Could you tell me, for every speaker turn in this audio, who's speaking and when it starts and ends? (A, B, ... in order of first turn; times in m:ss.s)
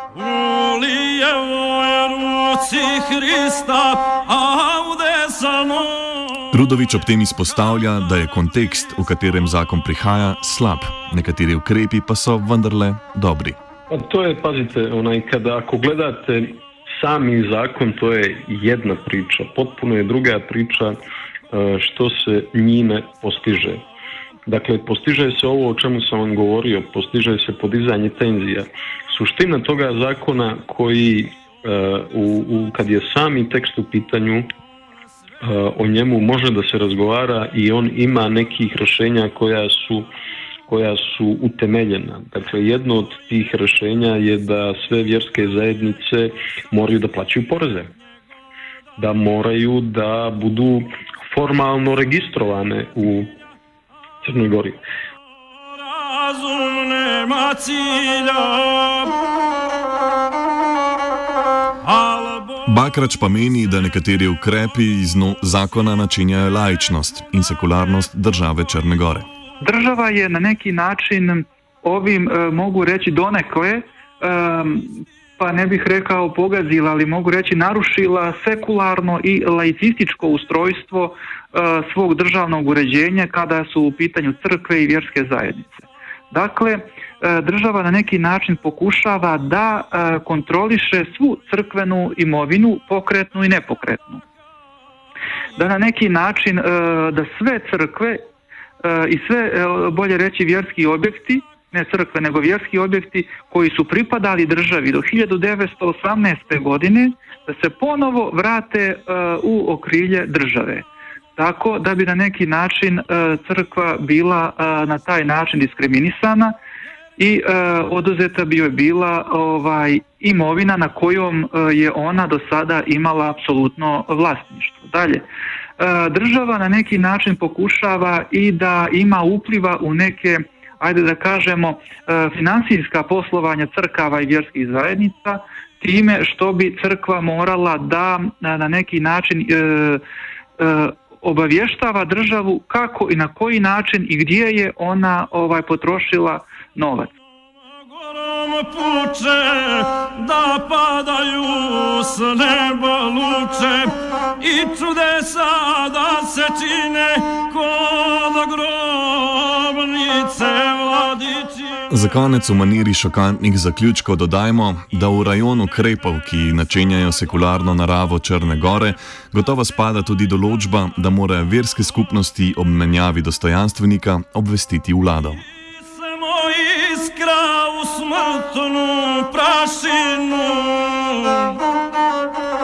0:00.1-0:06.5 A
0:06.5-0:13.6 B
0:13.9-0:21.0 C
0:21.5-0:23.8 C
0:24.4-0:34.5 C
0:35.4-0:40.1 C
0:40.7-0:47.9 C
0:49.0-0:53.3 C
0:54.2-0:54.8 C
0:55.6-0:59.2 A
1:01.8-1:02.6 A
1:02.6-1:09.3 B
1:09.6-1:34.2 D
1:35.6-1:38.2 D
1:38.8-1:56.5 D
1:57.2-2:05.2 D
2:05.8-2:20.0 D
2:20.6-2:27.1 D
2:27.8-2:41.8 A
2:41.9-2:55.4 B
2:55.9-3:01.6 A